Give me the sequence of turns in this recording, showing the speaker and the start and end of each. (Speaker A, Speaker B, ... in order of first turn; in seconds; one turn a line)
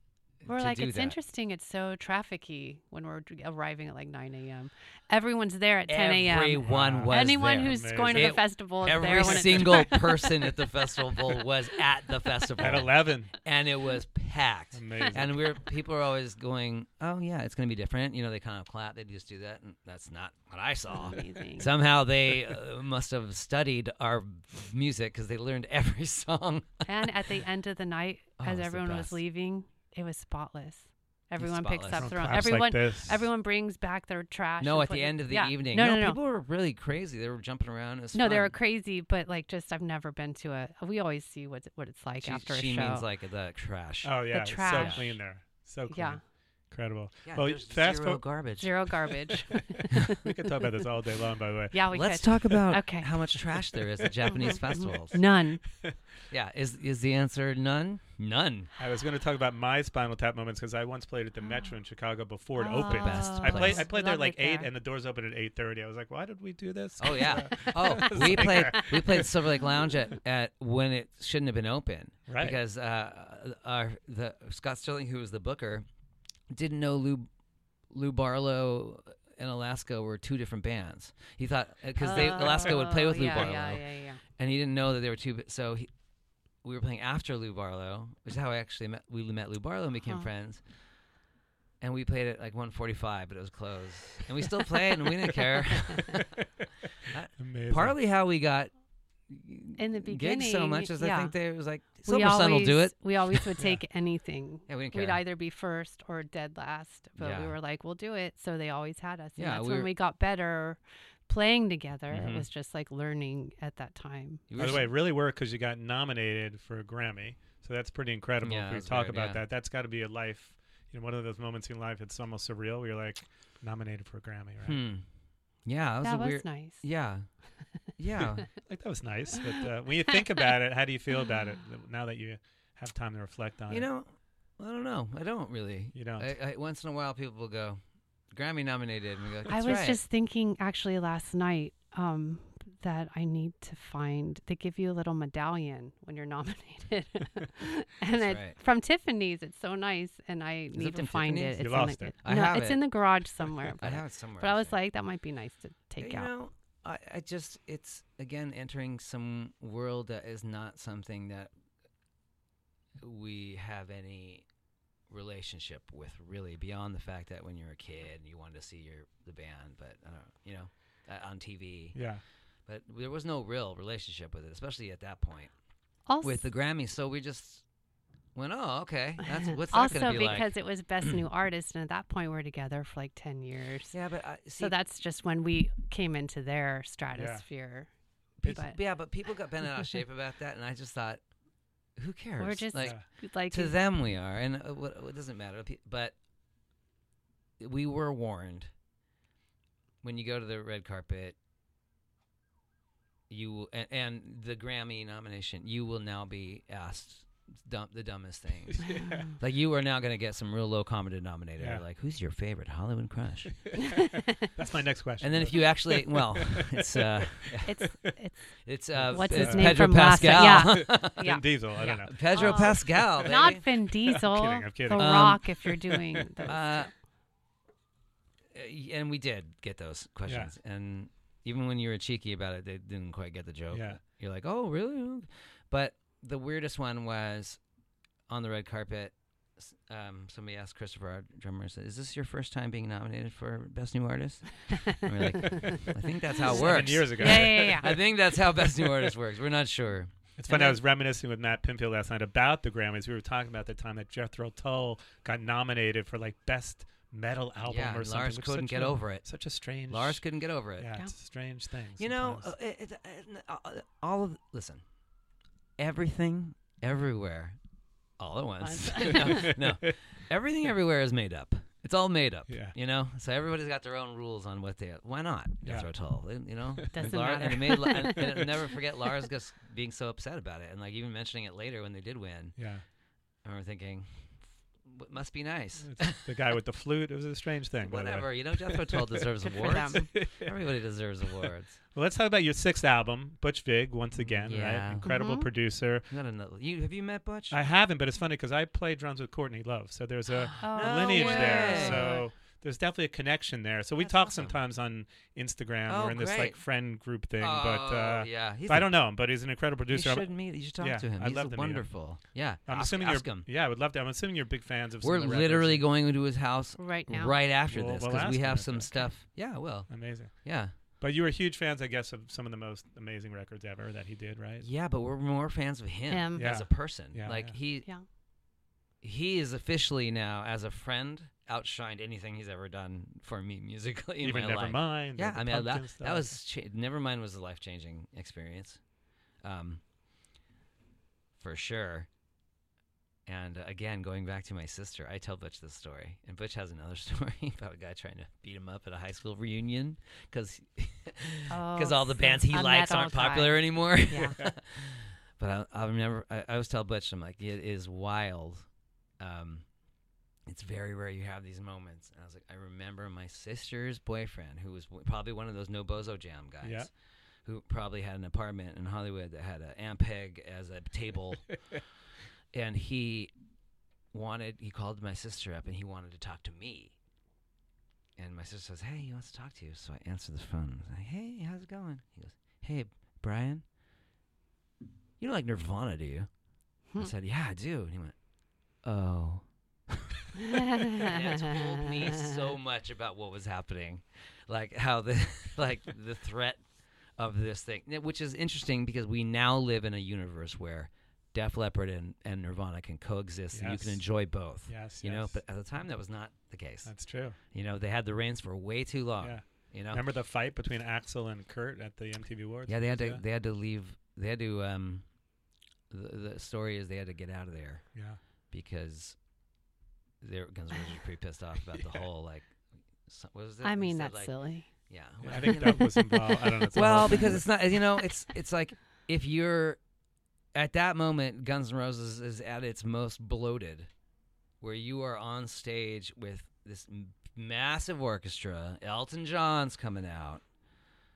Speaker A: 0.4-1.2
Speaker B: 0.5-10.5
Speaker A: 5.9-27.1
Speaker C: 6.6-8.5
Speaker C: 9.0-9.9
Speaker C: 12.6-13.3
Speaker C: 14.7-15.4
Speaker B: 20.9-21.7
Speaker B: 26.9-36.2
Speaker A: 28.4-29.2
Speaker A: 31.4-32.5
Speaker C: 31.9-33.2
Speaker A: 34.6-38.6
Speaker B: 38.1-43.1
Speaker A: 42.2-45.1
Speaker C: 44.0-48.4
Speaker B: 44.3-45.3
Speaker B: 45.9-46.2
Speaker A: 47.2-49.1
Speaker B: 48.6-50.2
Speaker C: 50.1-52.6
Speaker B: 51.7-53.3
Speaker A: 51.9-55.2
Speaker C: 54.0-56.1
Speaker B: 54.4-55.6
Speaker A: 56.3-58.7
Speaker C: 58.8-69.3
Speaker B: 62.6-64.7
Speaker A: 62.7-63.9
Speaker A: 67.0-75.9
Speaker B: 67.5-68.9
Speaker C: 72.3-72.6
Speaker A: 76.5-77.3
Speaker A: 77.9-85.9
Speaker B: 82.0-84.2
Speaker A: 86.6-90.8
Speaker A: 91.8-96.3
Speaker A: 97.1-103.5
Speaker C: 97.4-98.0
Speaker B: 99.8-114.7
Speaker A: 104.7-105.2
Speaker A: 107.2-107.5
Speaker A: 109.4-109.9
Speaker A: 112.1-112.5
Speaker A: 114.5-114.9
Speaker C: 114.6-124.8
Speaker A: 118.4-119.4
Speaker A: 124.6-128.5
Speaker B: 126.0-126.8
Speaker C: 128.6-133.9
Speaker A: 133.7-140.0
Speaker C: 135.9-136.3
Speaker B: 139.5-156.3
Speaker A: 148.1-148.6
Speaker A: 150.7-153.0
Speaker C: 151.6-152.2
Speaker A: 153.8-154.8
Speaker A: 156.0-161.5
Speaker A: 163.0-164.5
Speaker A: 165.1-172.0
Speaker C: 171.9-172.2
Speaker A: 172.7-175.6
Speaker B: 176.1-176.5
Speaker A: 176.2-177.7
Speaker A: 178.3-181.1
Speaker B: 179.5-184.0
Speaker A: 183.9-184.8
Speaker B: 184.6-188.8
Speaker C: 187.1-187.5
Speaker A: 188.4-191.3
Speaker A: 192.0-196.2
Speaker B: 192.4-193.8
Speaker C: 192.8-193.1
Speaker A: 197.6-198.7
Speaker A: 200.0-201.4
Speaker A: 203.3-214.0
Speaker C: 208.8-209.3
Speaker B: 208.9-209.3
Speaker C: 211.6-211.8
Speaker C: 214.4-217.8
Speaker A: 215.2-223.6
Speaker B: 217.7-226.9
Speaker C: 218.9-226.5
Speaker A: 224.9-225.6
Speaker A: 226.5-226.9
Speaker A: 228.5-237.6
Speaker C: 230.3-230.5
Speaker C: 233.7-234.0
Speaker A: 238.3-250.8
Speaker B: 246.4-248.0
Speaker C: 246.5-248.1
Speaker C: 248.6-249.1
Speaker C: 250.4-262.5
Speaker A: 257.6-260.9
Speaker A: 262.0-264.8
Speaker A: 265.8-267.6
Speaker A: 268.2-282.7
Speaker B: 268.6-269.5
Speaker C: 269.2-269.9
Speaker C: 272.5-272.8
Speaker C: 275.6-277.5
Speaker B: 276.9-278.5
Speaker C: 282.6-282.9
Speaker A: 283.4-286.3
Speaker C: 285.8-290.6
Speaker A: 287.8-291.8
Speaker B: 289.4-290.1
Speaker C: 291.3-296.1
Speaker A: 294.1-295.2
Speaker B: 295.0-295.5
Speaker A: 296.1-297.6
Speaker C: 297.5-315.9
Speaker A: 300.3-302.2
Speaker B: 300.6-302.3
Speaker A: 304.2-304.6
Speaker A: 305.9-306.6
Speaker A: 307.4-308.9
Speaker A: 309.9-313.5
Speaker A: 315.0-320.8
Speaker B: 316.8-317.4
Speaker C: 317.7-324.7
Speaker A: 324.6-327.9
Speaker B: 326.1-326.5
Speaker C: 326.4-327.6
Speaker A: 329.0-338.8
Speaker C: 334.2-336.4
Speaker A: 339.4-339.8
Speaker A: 341.4-342.1
Speaker A: 343.3-359.7
Speaker B: 351.5-354.4
Speaker A: 360.5-366.9
Speaker C: 366.6-366.9
Speaker A: 367.4-371.9
Speaker A: 372.5-373.3
Speaker A: 374.1-376.9
Speaker A: 378.2-383.6
Speaker A: 385.2-386.3
Speaker A: 386.9-388.2
Speaker A: 388.8-390.2
Speaker B: 390.5-392.3
Speaker A: 390.9-410.0
Speaker C: 403.5-405.4
Speaker C: 406.9-407.4
Speaker C: 409.2-413.2
Speaker A: 412.7-415.1
Speaker A: 415.9-419.2
Speaker C: 417.9-418.2
Speaker A: 420.2-429.8
Speaker B: 423.6-424.7
Speaker C: 425.2-427.6
Speaker B: 425.3-426.2
Speaker A: 430.5-433.9
Speaker A: 434.6-440.4